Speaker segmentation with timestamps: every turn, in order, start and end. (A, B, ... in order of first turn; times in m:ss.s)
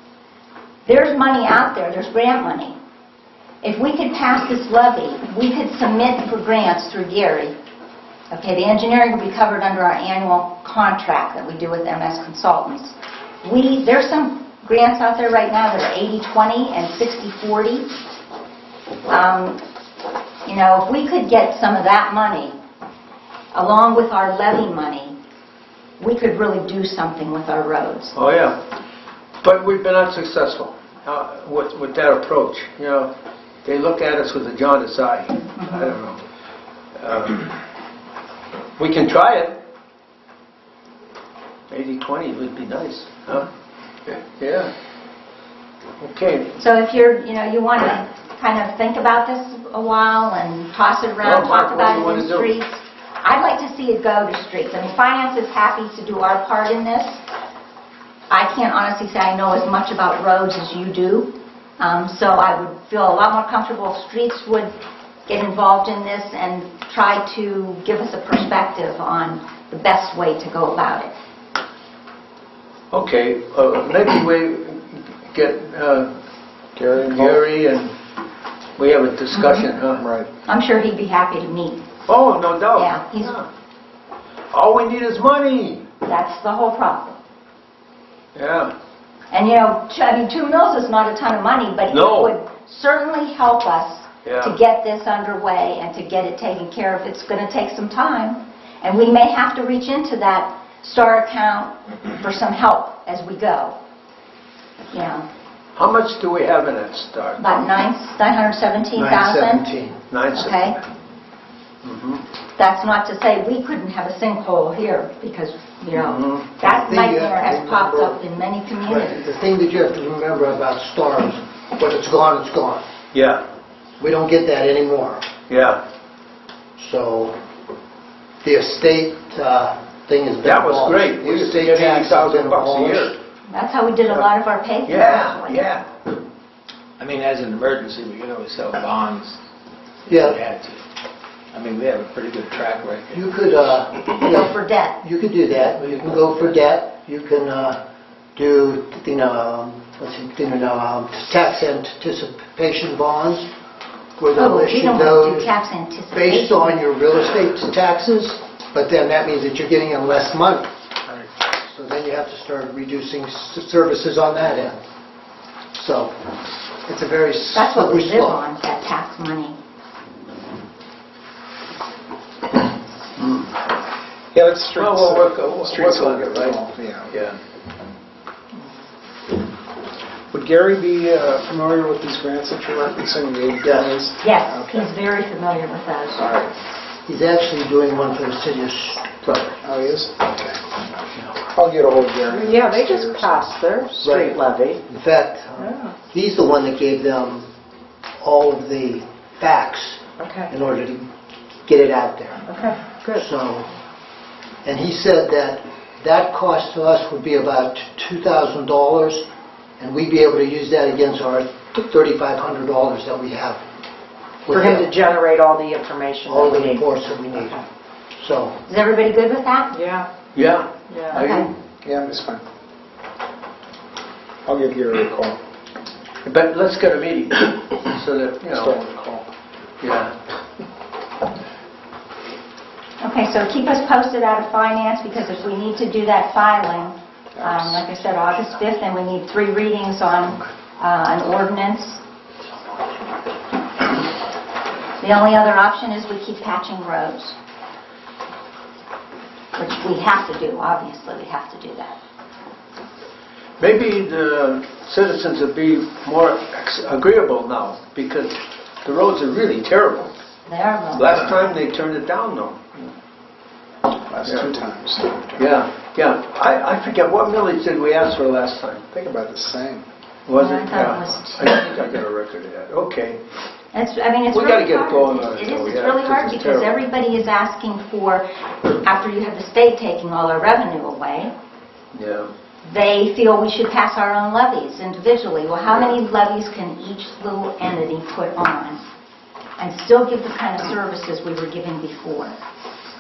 0:00.8-0:02.8 A
0:03.6-0:07.5 A
0:08.3-0:17.9 A
0:19.1-0:19.6 A
0:20.4-0:22.5 A
0:23.5-0:25.2 A
0:26.0-0:28.1 A
0:28.1-0:28.6 B
0:29.4-0:33.1 B
0:33.6-0:36.2 B
0:35.6-0:35.9 A
0:37.0-0:37.5 B
0:38.8-0:39.6 B
0:41.7-0:43.5 B
0:44.0-0:44.7 B
0:46.0-0:46.6 B
0:46.6-0:57.2 A
0:51.2-0:52.5 B
0:58.3-1:04.7 A
1:05.2-1:11.1 A
1:12.9-1:16.1 B
1:16.8-1:17.4 C
1:17.0-1:17.9 B
1:18.8-1:20.0 B
1:19.4-1:19.6 A
1:20.0-1:20.3 C
1:20.4-1:21.8 A
1:22.1-1:23.5 B
1:22.8-1:23.4 A
1:24.5-1:25.8 B
1:26.0-1:27.2 A
1:28.3-1:28.7 B
1:29.3-1:43.8 A
1:31.9-1:32.3 B
1:34.2-1:34.6 B
1:44.9-1:45.2 A
1:45.8-1:47.6 B
1:47.4-1:49.6 A
1:49.0-1:50.0 D
1:50.1-1:50.8 B
1:50.3-1:50.8 A
1:51.8-1:52.2 B
1:52.6-1:59.2 A
1:55.9-1:56.4 B
1:56.6-1:58.2 D
1:58.8-2:02.8 D
2:03.1-2:03.4 B
2:04.0-2:05.2 D
2:05.5-2:05.8 B
2:06.8-2:07.4 D
2:08.4-2:13.2 D
2:10.4-2:13.2 B
2:13.5-2:15.7 A
2:14.8-2:15.9 B
2:17.0-2:19.4 E
2:20.1-2:20.4 D
2:20.1-2:20.8 E
2:21.5-2:23.2 E
2:23.1-2:27.8 D
2:24.2-2:25.0 A
2:28.4-2:33.5 D
2:34.2-2:35.5 D
2:34.3-2:36.8 A
2:36.1-2:40.7 D
2:41.5-2:44.8 D
2:45.7-2:46.2 D
2:46.8-2:48.4 D
2:47.5-2:49.6 A
2:53.2-2:53.5 B
2:54.3-2:57.3 C
2:54.7-2:57.4 B
3:00.3-3:04.9 C
3:03.7-3:03.9 B
3:04.2-3:06.3 A
3:06.2-3:06.5 C
3:07.1-3:09.5 D
3:09.6-3:10.8 C
3:11.3-3:13.3 C
3:12.3-3:14.8 F
3:14.0-3:17.5 D
3:18.2-3:21.1 D
3:20.2-3:20.5 F
3:21.7-3:23.7 D
3:22.5-3:23.2 F
3:24.6-3:29.2 D
3:29.8-3:33.6 D
3:34.4-3:34.9 D
3:34.5-3:36.8 F
3:36.3-3:37.6 D
3:38.2-3:38.6 D
3:38.7-3:39.8 A
3:39.7-3:40.1 F
3:40.3-3:41.5 B
3:41.1-3:41.5 A
3:41.8-3:42.4 C
3:44.4-3:45.4 C
3:46.2-3:48.8 B
3:48.4-3:49.3 C
3:49.8-3:50.1 B
3:53.0-4:02.0 A
3:57.4-3:57.8 C
4:05.0-4:07.4 A
4:09.5-4:12.0 A
4:13.6-4:20.1 B
4:20.4-4:21.3 A
4:20.9-4:22.9 B
4:24.0-4:25.5 C
4:24.2-4:24.6 B
4:25.4-4:28.9 B
4:28.9-4:29.9 C
4:30.3-4:33.2 B
4:30.3-4:31.5 A
4:33.7-4:41.3 A
4:34.3-4:36.8 B
4:41.9-4:42.3 B
4:42.6-4:48.8 A
4:49.6-4:52.4 A